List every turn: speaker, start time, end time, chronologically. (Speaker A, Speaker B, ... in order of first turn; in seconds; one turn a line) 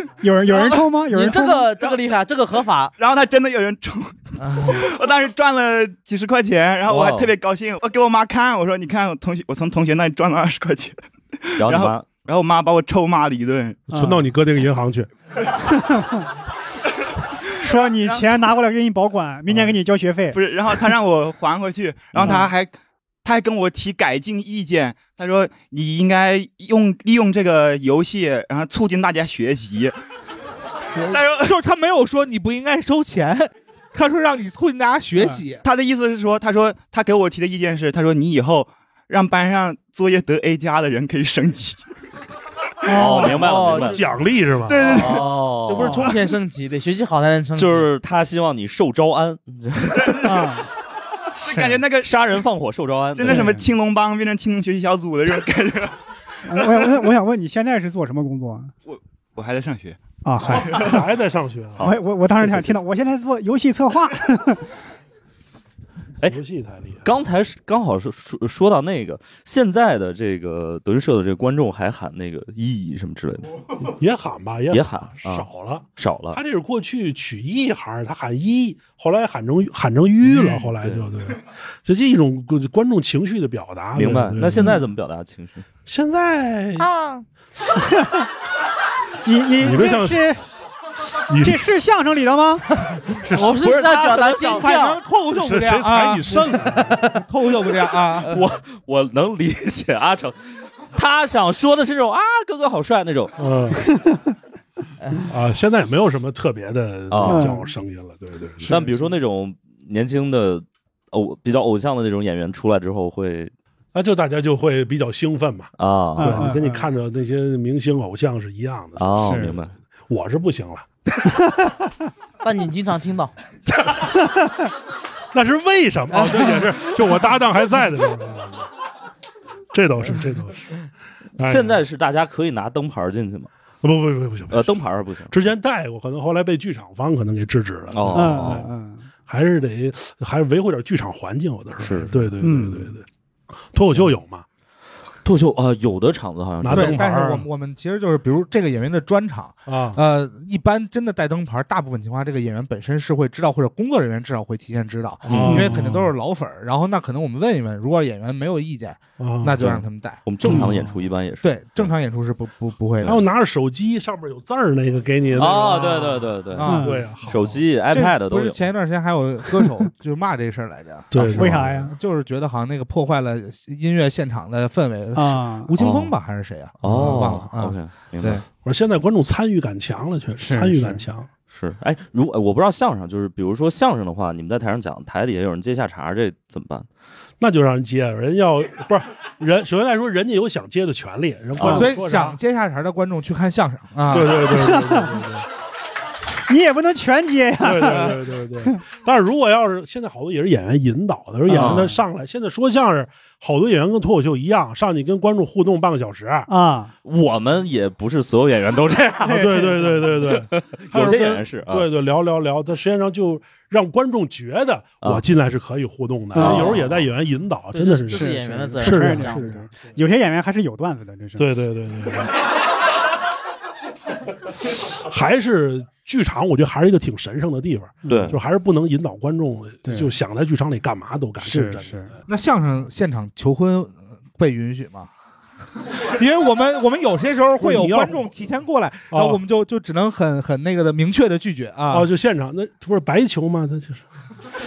Speaker A: 0.2-1.7
Speaker B: 1.0-2.9
Speaker C: 3.0-13.8
Speaker B: 4.4-4.8
Speaker D: 6.9-7.3
Speaker D: 11.6-12.1
Speaker E: 13.9-15.1
Speaker A: 13.9-14.2
Speaker A: 15.8-16.2
Speaker A: 17.5-20.4
Speaker C: 17.7-18.4
Speaker C: 20.3-29.9
Speaker C: 30.9-31.6
Speaker F: 31.4-35.6
Speaker C: 35.6-41.9
Speaker A: 42.8-43.4
Speaker D: 42.9-44.0
Speaker B: 43.3-44.1
Speaker E: 43.5-45.2
Speaker C: 44.7-45.3
Speaker D: 44.9-46.1
Speaker B: 44.9-47.9
Speaker D: 47.5-50.5
Speaker A: 50.2-50.7
Speaker C: 51.4-52.2
Speaker D: 52.0-53.6
Speaker C: 53.1-56.0
Speaker A: 53.3-53.7
Speaker A: 56.5-58.7
Speaker C: 56.6-56.8
Speaker C: 58.8-61.0
Speaker A: 60.2-61.0
Speaker E: 60.5-61.9
Speaker D: 61.8-62.8
Speaker A: 61.8-64.6
Speaker E: 66.3-67.0
Speaker D: 67.0-73.6
Speaker E: 73.8-84.8
Speaker D: 74.7-76.4
Speaker D: 80.2-81.1
Speaker D: 83.9-85.7
Speaker E: 85.8-86.9
Speaker B: 86.9-87.2
Speaker A: 89.2-90.4
Speaker E: 89.6-90.3
Speaker E: 91.3-91.6
Speaker A: 91.4-92.7
Speaker B: 92.8-95.0
Speaker E: 93.2-93.6
Speaker D: 93.6-94.7
Speaker F: 94.4-98.3
Speaker E: 95.3-97.2
Speaker D: 98.2-103.4
Speaker E: 103.4-104.0
Speaker B: 105.0-105.3
Speaker E: 105.3-108.8
Speaker D: 107.1-107.6
Speaker A: 107.2-107.6
Speaker D: 108.7-113.5
Speaker E: 113.9-119.4
Speaker D: 115.8-116.5
Speaker A: 116.2-116.9
Speaker D: 119.0-119.7
Speaker A: 119.2-119.5
Speaker E: 120.1-120.8
Speaker A: 121.4-121.8
Speaker B: 122.4-123.3
Speaker E: 125.3-128.7
Speaker B: 126.1-126.5
Speaker E: 129.7-131.8
Speaker D: 131.4-133.5
Speaker E: 133.8-138.7
Speaker D: 134.5-135.3
Speaker D: 137.9-138.7
Speaker A: 138.1-139.0
Speaker E: 139.3-143.0
Speaker D: 141.8-142.3
Speaker A: 142.4-142.9
Speaker E: 143.7-144.4
Speaker D: 145.2-147.0
Speaker E: 146.6-147.4
Speaker F: 146.7-160.6
Speaker E: 149.7-150.0
Speaker E: 155.2-156.1
Speaker D: 155.2-155.6
Speaker A: 155.5-155.7
Speaker E: 159.2-159.6
Speaker D: 159.6-161.9
Speaker E: 160.4-161.1
Speaker F: 161.4-163.2
Speaker E: 163.1-167.6
Speaker D: 165.3-168.6
Speaker F: 166.5-167.0
Speaker A: 166.6-167.0
Speaker F: 167.9-178.4
Speaker E: 171.1-171.6
Speaker A: 171.3-171.9
Speaker A: 175.2-175.7
Speaker D: 175.8-176.1
Speaker D: 176.8-178.4
Speaker E: 176.9-177.3
Speaker E: 178.6-181.3
Speaker A: 180.4-181.0
Speaker D: 181.5-186.8
Speaker E: 187.4-192.4
Speaker D: 191.6-191.9
Speaker F: 191.7-194.6
Speaker E: 194.1-195.4
Speaker A: 194.5-195.0
Speaker A: 196.5-198.1
Speaker E: 197.6-206.5
Speaker A: 201.5-202.0
Speaker D: 201.5-201.9
Speaker A: 206.5-206.9
Speaker D: 207.0-211.9
Speaker A: 209.2-210.1
Speaker E: 209.3-219.6
Speaker A: 216.3-216.8
Speaker D: 216.3-217.0
Speaker B: 217.7-219.6
Speaker A: 218.1-221.5
Speaker E: 221.4-222.3
Speaker E: 224.6-232.1
Speaker A: 228.0-228.3
Speaker D: 228.1-228.4
Speaker A: 229.8-230.1
Speaker A: 231.4-232.1
Speaker F: 232.3-235.1
Speaker F: 236.0-242.1
Speaker E: 237.6-238.3
Speaker E: 239.1-239.4
Speaker E: 241.9-244.0